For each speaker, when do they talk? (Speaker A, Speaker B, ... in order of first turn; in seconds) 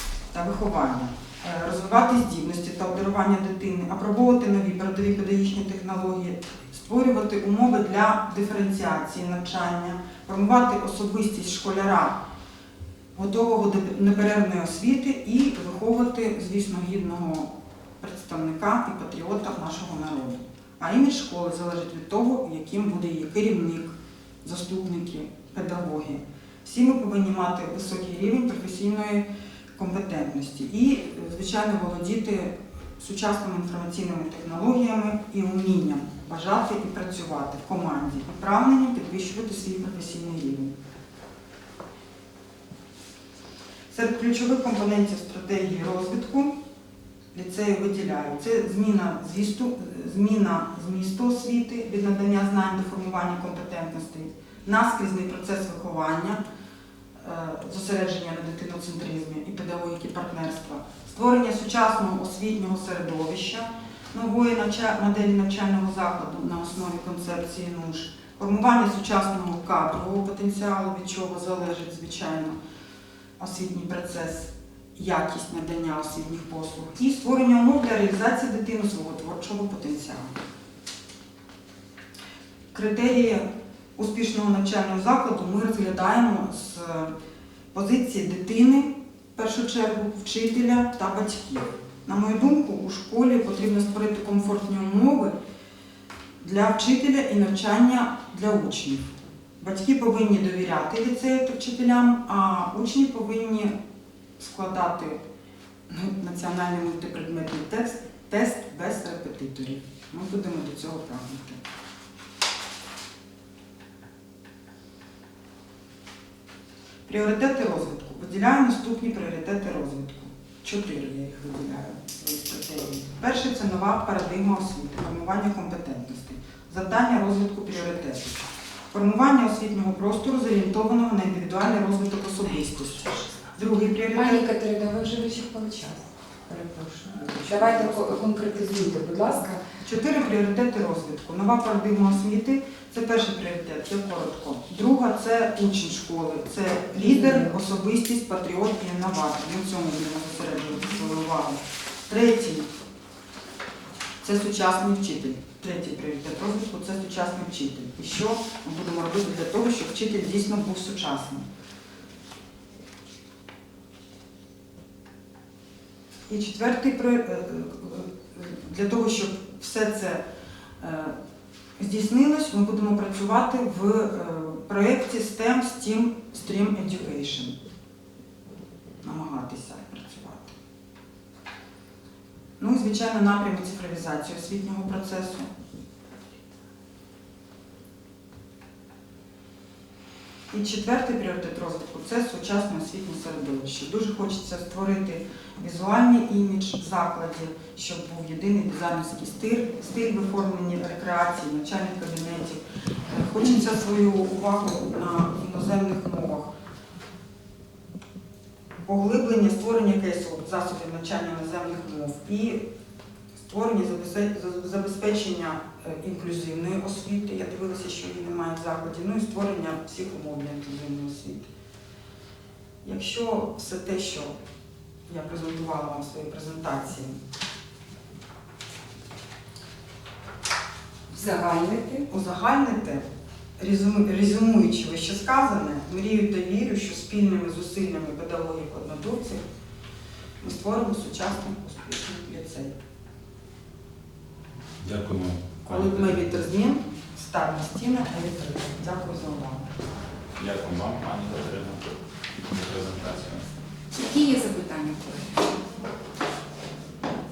Speaker A: 0.3-12.2, 13.1-40.7, 43.9-46.5, 47.3-56.4, 57.2-72.6, 73.4-80.3, 82.7-83.5, 84.0-87.1, 87.7-95.3, 96.4-99.1, 99.6-103.8, 104.4-105.2, 105.9-111.6, 117.1-134.4, 137.1-138.0, 139.8-152.7, 154.2-161.5, 166.3-170.2, 170.8-171.2, 171.8-177.6, 179.0-180.5, 182.6-185.5, 190.5-206.5, 208.8-212.6, 213.3-221.4, 222.8-224.3, 225.1-227.2, 232.1-233.1, 233.6-239.4, 240.4-242.8, 245.6-249.6
Speaker B: 133.9-139.6, 146.9-147.5, 231.1-232.1, 253.9-255.6
Speaker C: 244.8-246.4, 250.3-253.4